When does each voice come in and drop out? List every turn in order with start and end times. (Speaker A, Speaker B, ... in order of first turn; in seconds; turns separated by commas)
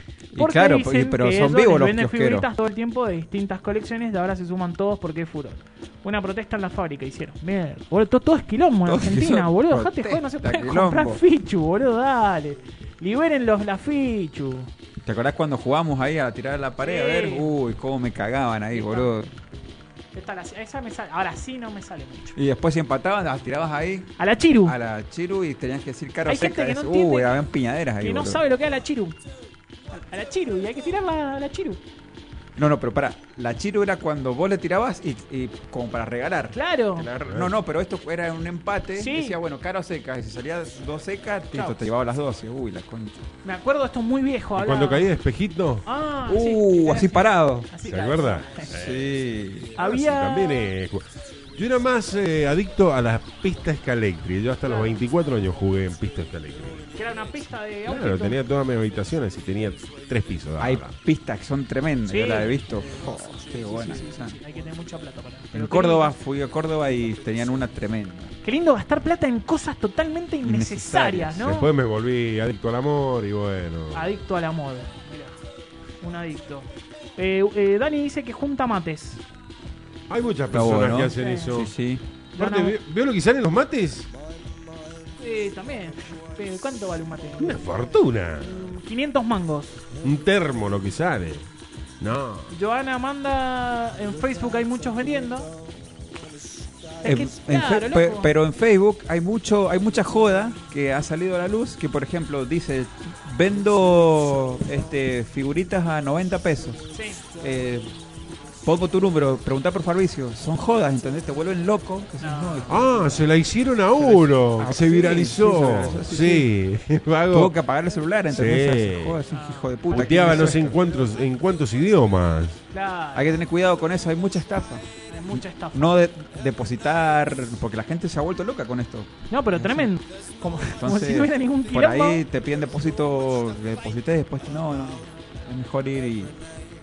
Speaker A: 0.3-2.5, Speaker B: 0.4-14.7, Speaker A: 8.9-11.2, Speaker A: 15.1-19.3, Speaker B: 16.8-17.5, Speaker B: 18.7-19.1, Speaker B: 20.1-22.4, Speaker A: 22.4-28.4, Speaker B: 24.2-24.7, Speaker B: 26.3-27.4, Speaker B: 28.0-29.2, Speaker B: 29.9-31.8, Speaker A: 32.6-43.3, Speaker B: 36.5-37.1, Speaker C: 37.2-37.5, Speaker B: 39.0-39.4, Speaker B: 41.5-41.8, Speaker B: 43.4-45.1, Speaker C: 44.6-45.9, Speaker B: 45.9-48.7, Speaker A: 46.3-47.7, Speaker C: 47.9-49.1, Speaker A: 48.7-49.7, Speaker C: 49.8-56.9, Speaker B: 49.8-50.7, Speaker B: 54.6-55.0, Speaker B: 57.0-58.4, Speaker C: 57.9-60.9, Speaker A: 60.6-64.4, Speaker B: 62.1-66.2, Speaker A: 65.5-68.3, Speaker B: 68.4-71.7, Speaker A: 70.4-71.5, Speaker C: 71.4-74.1, Speaker B: 73.9-75.4, Speaker B: 76.0-79.2, Speaker C: 80.1-81.7, Speaker A: 80.5-82.0, Speaker B: 81.2-81.5, Speaker B: 82.4-82.8, Speaker C: 82.4-84.1, Speaker B: 85.2-87.6, Speaker C: 87.4-88.7, Speaker B: 88.4-89.9, Speaker C: 90.0-91.5, Speaker C: 92.0-92.5, Speaker B: 92.5-95.5, Speaker B: 97.0-98.3, Speaker A: 97.0-106.9, Speaker B: 106.9-107.2, Speaker A: 107.4-107.9, Speaker A: 108.6-113.2, Speaker B: 112.2-112.8, Speaker C: 112.7-117.5, Speaker A: 114.0-116.5, Speaker A: 117.3-120.8, Speaker C: 118.3-119.2, Speaker B: 119.3-120.7, Speaker C: 119.9-122.6, Speaker B: 122.7-123.4, Speaker A: 123.2-129.9, Speaker B: 125.1-126.0, Speaker B: 129.3-132.2, Speaker A: 130.8-136.3